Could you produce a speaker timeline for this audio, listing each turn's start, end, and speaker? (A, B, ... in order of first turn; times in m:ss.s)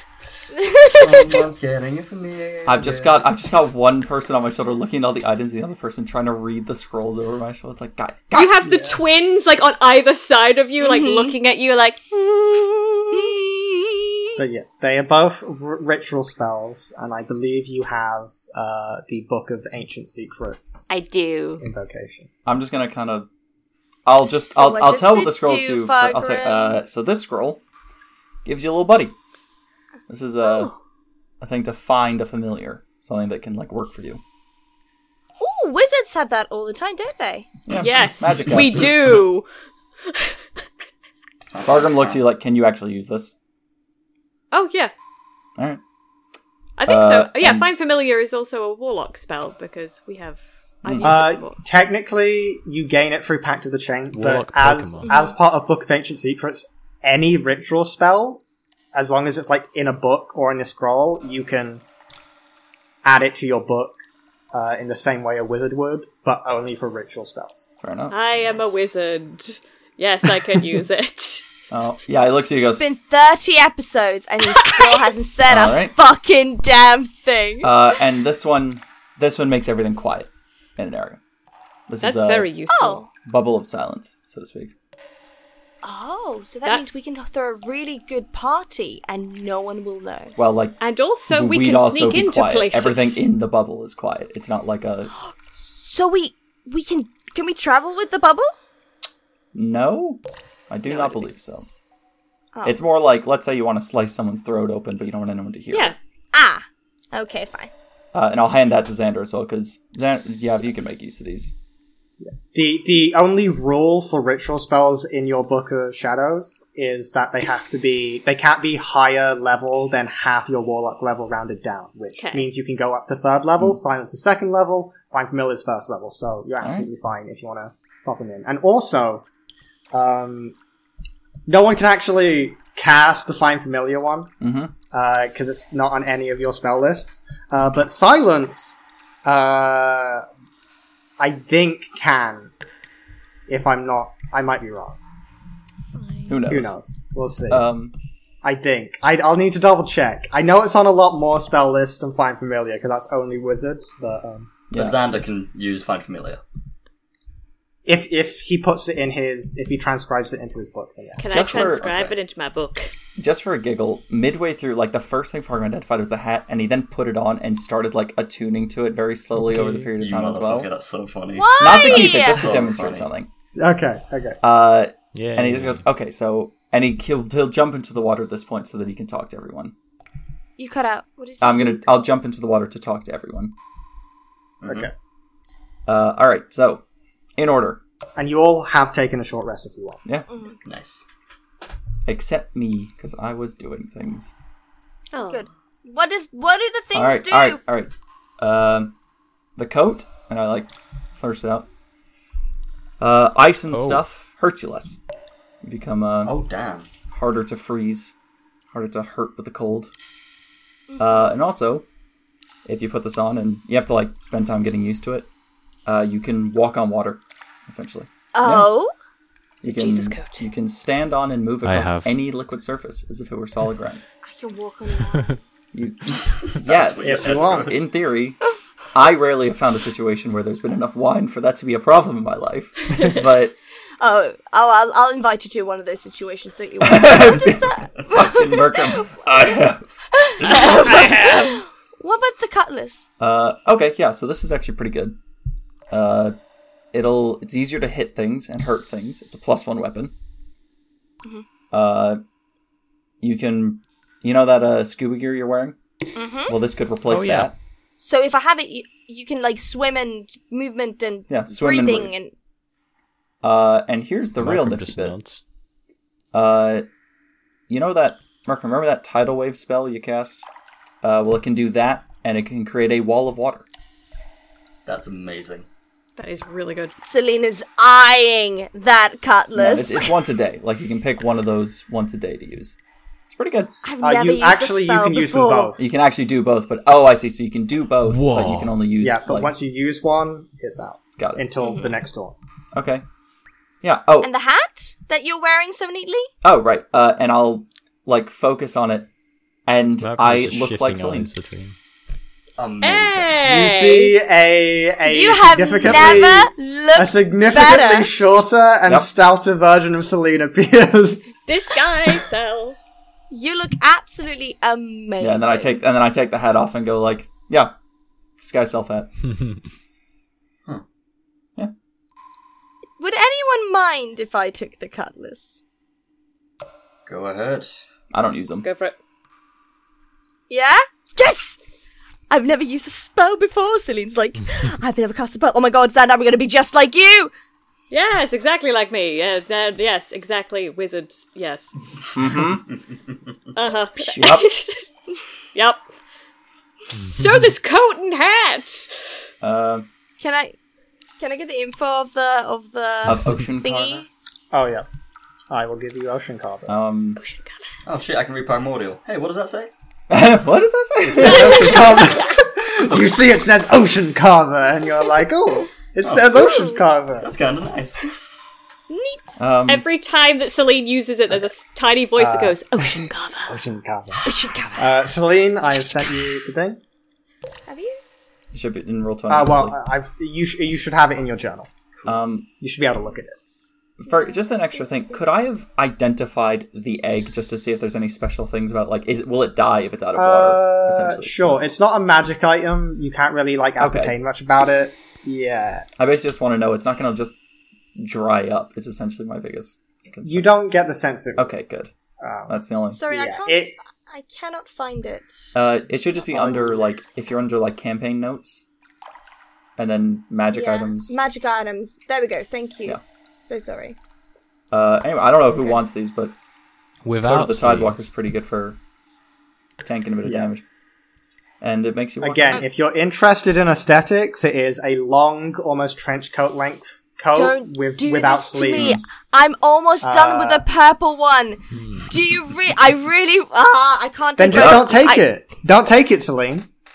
0:00.6-0:01.2 A
0:00.9-0:03.2 B
0:02.7-0:08.9 C
0:08.3-0:13.4 D
0:10.8-0:11.3 A
0:13.1-0:13.7 A
0:14.4-0:20.9 E
0:20.9-0:21.6 D
0:21.6-0:22.3 E
0:22.4-0:23.3 C
0:24.0-0:27.6 C
0:24.5-0:26.8 A
0:28.4-0:29.1 C
0:30.1-0:30.7 C
0:30.4-0:30.7 A
0:31.4-0:34.2 C
0:35.4-0:37.5 A
0:37.7-0:39.2 C
0:37.7-0:39.4 D
0:40.1-0:40.4 D
0:41.5-0:42.2 B
0:41.6-0:43.3 C
0:44.5-0:44.9 D
0:46.8-0:51.6 D
0:46.9-0:47.7 C
0:50.8-0:51.3 C
0:51.0-0:58.4 E
0:54.1-0:55.1 F
0:55.0-0:55.3 D
0:58.9-1:01.8 E
1:03.0-1:04.0 E
1:04.5-1:07.6 E
1:07.8-1:08.7 C
1:08.1-1:11.5 D
1:11.7-1:12.8 C
1:12.6-1:17.7 A
1:14.5-1:15.1 D
1:15.5-1:16.0 C
1:17.6-1:21.2 C
1:21.9-1:22.5 C
1:22.0-1:23.0 D
1:22.7-1:23.1 A
1:23.2-1:24.7 C
1:25.8-1:30.3 A
1:30.4-1:35.1 C
1:30.8-1:33.2 D
1:35.5-1:38.5 A
1:39.5-1:41.7 C
1:40.9-1:41.7 D
1:42.6-1:46.0 C
1:45.7-1:46.0 D
1:46.3-1:47.7 A
1:48.1-1:51.5 C
1:52.2-2:09.3 E
2:02.2-2:02.5 D
2:06.6-2:06.9 C
2:09.9-2:10.6 E
2:11.5-2:14.3 E
2:14.4-2:14.7 C
2:14.9-2:20.3 E
2:21.2-2:22.5 E
2:23.5-2:25.0 E
2:26.0-2:26.4 D
2:26.3-2:26.7 C
2:26.5-2:27.7 E
2:27.5-2:27.9 C
2:28.4-2:34.5 E
2:34.7-2:35.0 C
2:34.7-2:36.4 B
2:37.9-2:41.3 E
2:41.2-2:42.9 D
2:41.3-2:42.1 C
2:41.3-2:42.1 B
2:43.2-2:50.7 C
2:49.3-2:49.9 F
2:50.0-2:53.1 B
2:51.3-2:52.5 A
2:51.6-2:53.3 C
2:53.6-2:54.4 E
2:54.4-2:59.7 C
2:55.1-2:55.8 F
3:00.6-3:02.1 A
3:01.4-3:03.5 C
3:04.6-3:04.9 B
3:04.7-3:04.9 E
3:05.9-3:06.8 C
3:07.4-3:07.8 C
3:08.2-3:10.0 E
3:10.0-3:10.3 C
3:10.3-3:10.6 A
3:10.6-3:11.0 B
3:12.0-3:14.3 C
3:15.1-3:15.5 D
3:15.2-3:17.6 A
3:16.9-3:18.9 C
3:19.6-3:21.7 C
3:23.0-3:25.0 C
3:23.7-3:24.0 F
3:25.6-3:26.4 C
3:26.2-3:26.9 B
3:27.1-3:28.1 C
3:28.7-3:29.9 C
3:30.9-3:31.3 A
3:31.0-3:31.9 C
3:32.6-3:35.3 C
3:35.8-3:38.7 C
3:38.3-3:38.9 A
3:39.6-3:44.0 C
3:39.6-3:40.5 D
3:41.6-3:42.1 F
3:44.2-3:45.4 A
3:45.7-3:53.6 C
3:46.2-3:47.9 B
3:47.0-3:47.8 E
3:54.0-3:59.2 A
3:56.8-3:59.9 C
4:00.1-4:03.1 A
4:00.4-4:01.4 C
4:01.0-4:01.4 D
4:03.2-4:05.2 C
4:05.9-4:06.4 C
4:06.9-4:10.1 C
4:11.7-4:12.2 C
4:13.2-4:15.8 C
4:16.1-4:16.5 A
4:16.5-4:17.5 C
4:17.0-4:17.5 F
4:18.0-4:22.3 A
4:21.3-4:22.1 C
4:23.4-4:25.2 C
4:24.4-4:25.4 F
4:26.3-4:26.9 C
4:27.7-4:30.5 C
4:31.0-4:33.7 C
4:34.9-4:35.7 B
4:36.2-4:36.9 D
4:37.0-4:40.2 A
4:39.6-4:42.8 C
4:43.3-4:43.7 C
4:43.8-4:45.7 A
4:44.0-4:45.8 E
4:45.8-4:49.5 C
4:48.0-4:48.8 F
4:49.0-4:52.3 E
4:51.2-4:51.4 C
4:52.7-4:53.0 C
4:53.8-4:54.3 C
4:54.2-4:56.3 A
4:56.4-4:59.1 C
4:59.7-5:01.3 C
5:00.0-5:01.7 F
5:02.6-5:03.4 B
5:02.8-5:04.1 D
5:03.4-5:11.3 E
5:05.0-5:08.1 A
5:11.4-5:12.8 D
5:13.3-5:15.8 A
5:15.2-5:17.7 C
5:18.4-5:19.1 C
5:23.0-5:25.6 A
5:27.0-5:27.8 B
5:28.1-5:28.7 C
5:28.6-5:29.0 D
5:30.5-5:31.6 A
5:32.3-5:37.3 A
5:37.9-5:41.7 D
5:42.1-5:42.7 C
5:43.5-5:44.9 D
5:44.1-5:44.5 C
5:45.5-5:45.8 D
5:46.9-5:47.5 F
5:47.1-5:49.1 D
5:49.4-5:49.9 C
5:50.2-5:50.6 A
5:51.2-5:54.0 A
5:53.0-5:54.0 C
5:54.5-5:54.9 E
5:55.5-5:56.7 E
5:56.7-5:57.2 C
5:57.2-5:57.8 D
5:57.8-5:59.7 B
6:00.1-6:01.8 C
6:01.2-6:07.3 E
6:01.2-6:01.8 B
6:02.7-6:03.1 B
6:06.0-6:06.6 B
6:06.3-6:06.8 A
6:07.2-6:08.2 B
6:08.9-6:09.4 A
6:09.4-6:09.9 C
6:09.7-6:13.6 D
6:12.2-6:14.2 E
6:14.2-6:15.1 A
6:14.8-6:16.8 E
6:17.7-6:18.0 A
6:18.5-6:19.8 C
6:19.3-6:21.7 E
6:22.0-6:22.5 C
6:22.6-6:23.4 E
6:24.0-6:31.7 C
6:24.1-6:25.2 A
6:30.1-6:35.9 E
6:33.8-6:34.2 C
6:36.0-6:37.4 C
6:38.0-6:40.5 C
6:40.2-6:41.6 E
6:41.4-6:41.9 C
6:42.2-6:42.6 E
6:42.5-6:43.0 C
6:42.9-6:45.5 A
6:43.1-6:43.8 E
6:45.6-6:48.6 C
6:46.2-6:46.9 E
6:49.8-6:51.2 C
6:50.5-6:54.0 A
6:54.7-6:56.3 C
6:57.0-6:58.1 F
6:57.2-6:58.8 C
6:59.8-7:00.6 C
7:00.2-7:00.5 E
7:01.6-7:02.6 C
7:02.2-7:09.0 E
7:07.3-7:15.3 A
7:08.7-7:09.1 C
7:10.0-7:10.7 E
7:11.7-7:12.1 F
7:14.4-7:16.7 E
7:14.5-7:15.0 C